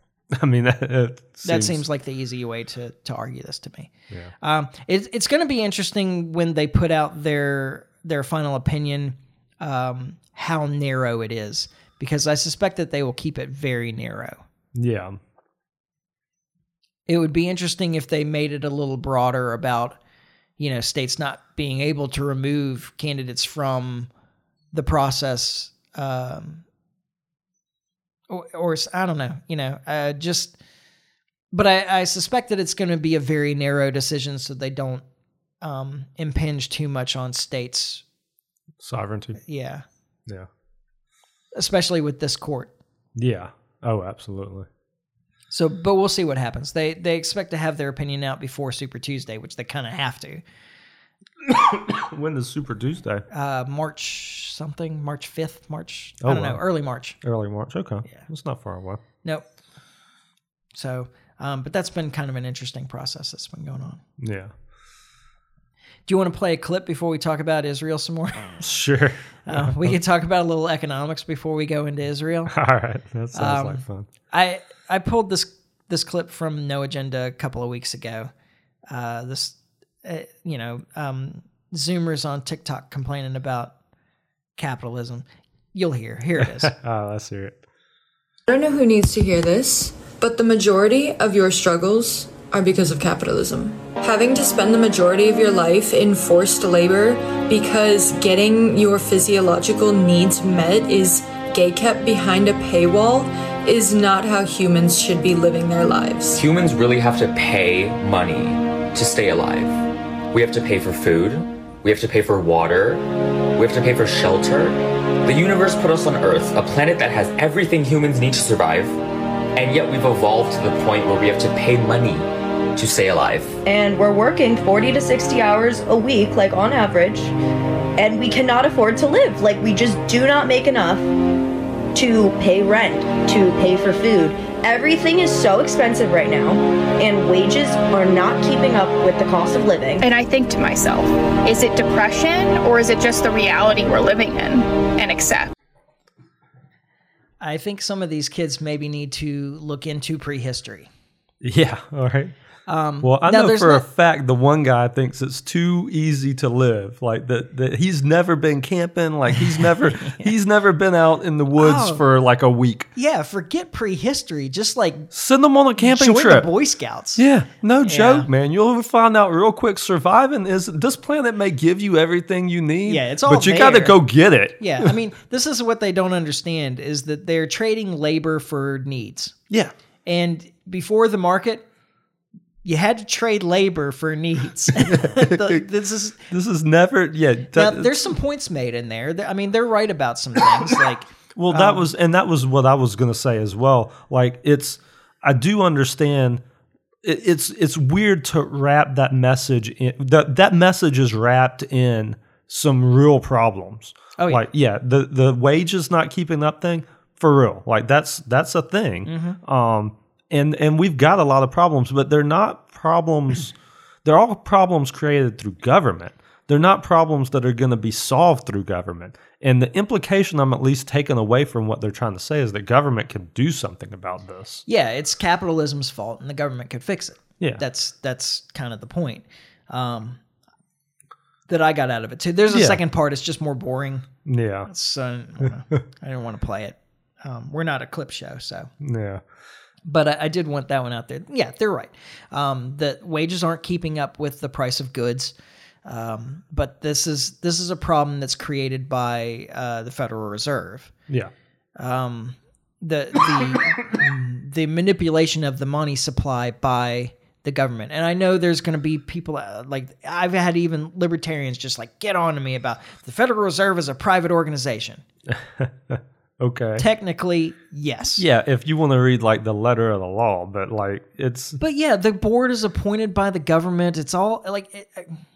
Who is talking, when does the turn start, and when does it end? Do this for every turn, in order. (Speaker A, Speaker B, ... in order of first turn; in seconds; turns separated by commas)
Speaker A: 0.3-1.8, Speaker B: 1.4-14.4, Speaker A: 14.7-15.2, Speaker B: 17.1-20.0, Speaker B: 20.6-24.1, Speaker B: 24.7-26.6, Speaker B: 28.3-30.6, Speaker B: 31.5-35.0, Speaker B: 35.6-38.0, Speaker A: 38.8-39.4, Speaker B: 39.4-39.8, Speaker B: 41.5-42.7, Speaker A: 43.1-44.7, Speaker B: 45.5-50.4, Speaker A: 51.4-53.2, Speaker B: 53.3-57.2, Speaker A: 56.2-56.6, Speaker A: 57.2-59.0, Speaker B: 60.7-64.0, Speaker A: 64.2-64.5, Speaker B: 66.1-68.8, Speaker A: 68.6-70.0, Speaker B: 69.5-72.5, Speaker A: 72.5-74.1, Speaker B: 73.3-78.3, Speaker B: 78.9-83.7, Speaker B: 84.6-86.7, Speaker A: 86.4-87.6, Speaker C: 88.5-106.4, Speaker D: 106.4-119.0, Speaker D: 119.5-123.6, Speaker E: 123.7-127.3, Speaker E: 128.0-131.1, Speaker E: 131.9-140.1, Speaker F: 140.0-145.5, Speaker B: 147.4-150.9, Speaker A: 151.4-152.3, Speaker B: 152.7-153.8, Speaker A: 153.0-162.9, Speaker B: 159.4-160.3, Speaker B: 161.6-162.0, Speaker B: 163.0-165.1, Speaker A: 165.1-166.5, Speaker B: 165.8-167.3, Speaker A: 167.2-174.9, Speaker B: 167.8-168.3, Speaker B: 172.9-174.0, Speaker B: 174.6-179.3, Speaker B: 180.1-181.7, Speaker B: 182.6-186.3, Speaker A: 184.8-185.6, Speaker A: 186.3-188.1, Speaker B: 187.5-191.9, Speaker A: 191.3-196.4, Speaker A: 197.0-213.5, Speaker B: 204.2-204.4, Speaker B: 209.1-209.4, Speaker A: 214.1-224.6, Speaker B: 224.7-230.2, Speaker B: 231.5-234.1, Speaker A: 232.5-232.8, Speaker A: 234.2-234.7, Speaker B: 234.7-238.7, Speaker A: 238.8-239.2, Speaker B: 239.8-245.3, Speaker B: 245.8-250.9, Speaker B: 251.8-265.0, Speaker A: 265.3-266.9, Speaker B: 266.8-268.2, Speaker A: 268.2-271.6, Speaker B: 271.6-275.2